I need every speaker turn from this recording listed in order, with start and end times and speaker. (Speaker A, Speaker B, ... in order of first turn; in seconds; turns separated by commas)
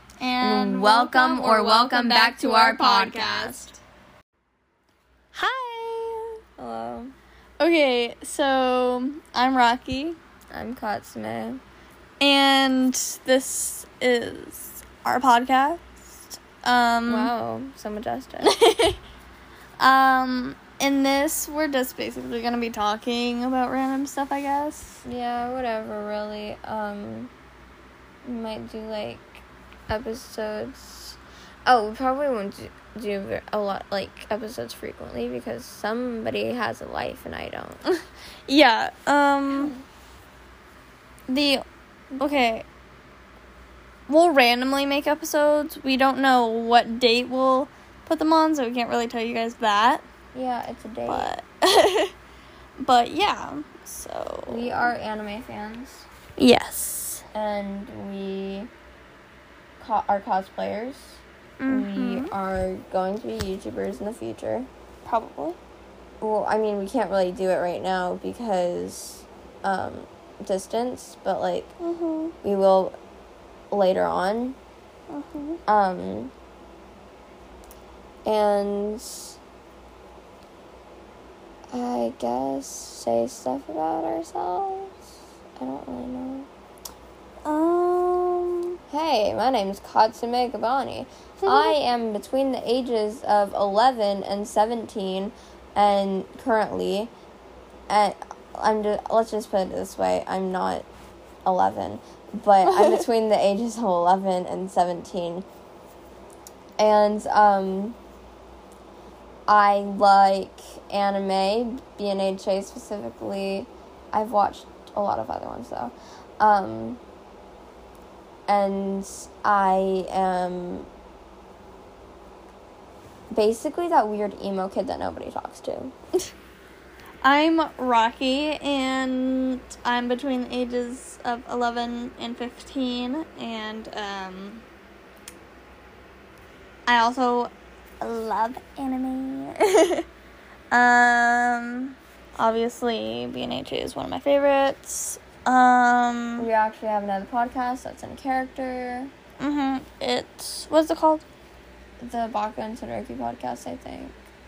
Speaker A: 0.2-3.8, Speaker B: 0.4-3.7, Speaker A: 5.3-6.4, Speaker B: 6.6-7.1, Speaker A: 7.6-10.2, Speaker B: 10.5-11.6, Speaker A: 12.2-17.3, Speaker B: 17.1-18.5, Speaker A: 18.4-19.0, Speaker A: 19.8-25.0, Speaker B: 25.1-27.3, Speaker B: 28.2-37.9, Speaker A: 38.5-39.7, Speaker A: 41.3-42.7, Speaker A: 44.1-50.0, Speaker B: 50.3-51.3, Speaker A: 51.1-52.1, Speaker A: 52.8-54.9, Speaker B: 54.5-56.1, Speaker A: 56.4-57.2, Speaker B: 57.3-58.7, Speaker B: 59.8-64.7, Speaker A: 61.6-62.3, Speaker A: 65.0-65.6, Speaker B: 66.2-71.7, Speaker A: 71.8-72.3, Speaker B: 72.4-73.0, Speaker B: 73.7-74.6, Speaker A: 75.1-75.6, Speaker B: 75.7-76.3, Speaker B: 78.3-79.3, Speaker B: 81.7-85.0, Speaker B: 85.6-86.5, Speaker A: 87.5-88.8, Speaker B: 88.9-97.1, Speaker A: 91.4-91.8, Speaker B: 97.9-100.9, Speaker B: 101.5-105.5, Speaker A: 102.6-103.1, Speaker B: 106.8-108.0, Speaker B: 109.5-117.0, Speaker B: 118.5-120.9, Speaker B: 123.3-125.9, Speaker A: 127.2-134.6, Speaker A: 136.9-140.1, Speaker A: 140.7-146.5, Speaker B: 146.4-149.1, Speaker A: 149.4-151.2, Speaker B: 152.0-154.2